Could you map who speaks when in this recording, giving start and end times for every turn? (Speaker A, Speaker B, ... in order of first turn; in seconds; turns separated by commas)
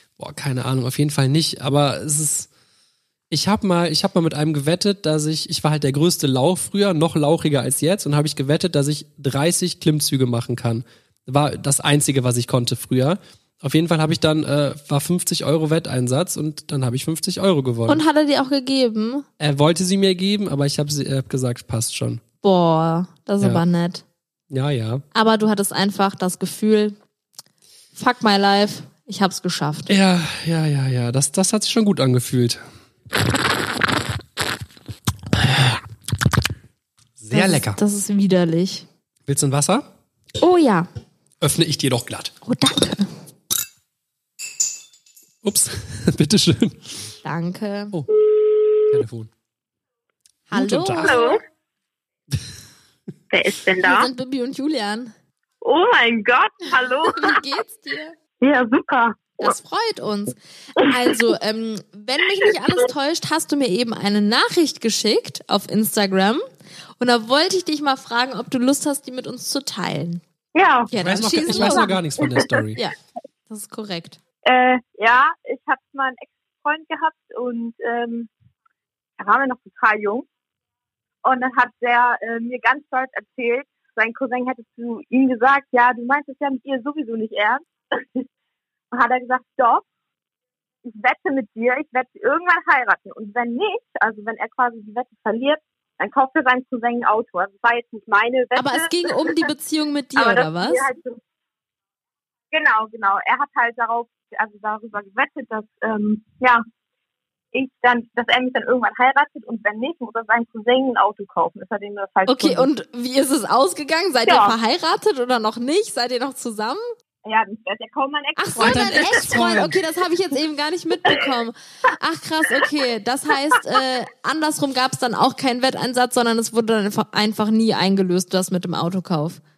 Speaker A: 0.2-2.5, Speaker A: 3.3-18.0, Speaker B: 17.9-19.3, Speaker A: 19.4-22.2, Speaker B: 22.4-24.0, Speaker A: 24.5-25.0, Speaker B: 25.1-27.0, Speaker B: 28.0-29.9, Speaker A: 29.9-32.6, Speaker A: 35.4-35.8, Speaker A: 37.2-37.8, Speaker B: 37.3-38.9, Speaker A: 39.3-39.9, Speaker B: 40.4-40.9, Speaker A: 41.4-42.3, Speaker B: 42.5-43.1, Speaker A: 45.4-47.0, Speaker B: 47.2-48.0, Speaker A: 48.9-49.3, Speaker B: 50.5-51.4, Speaker A: 50.5-51.2, Speaker C: 51.0-51.4, Speaker C: 53.3-54.1, Speaker B: 53.8-55.1, Speaker C: 55.6-57.4, Speaker B: 57.1-58.1, Speaker C: 58.4-59.4, Speaker B: 59.4-66.4, Speaker B: 67.0-70.2, Speaker C: 70.5-70.9, Speaker B: 70.9-72.0, Speaker A: 70.9-72.8, Speaker C: 71.4-72.6, Speaker B: 73.5-74.2, Speaker C: 74.5-78.3, Speaker C: 79.2-80.3, Speaker C: 81.2-88.3, Speaker C: 88.9-89.8, Speaker C: 90.8-99.4, Speaker B: 98.6-100.9, Speaker C: 100.2-101.2, Speaker C: 102.5-106.6, Speaker C: 107.5-112.7, Speaker B: 112.3-116.8, Speaker C: 114.3-114.5, Speaker C: 117.2-119.3, Speaker B: 118.4-129.4, Speaker A: 118.6-119.8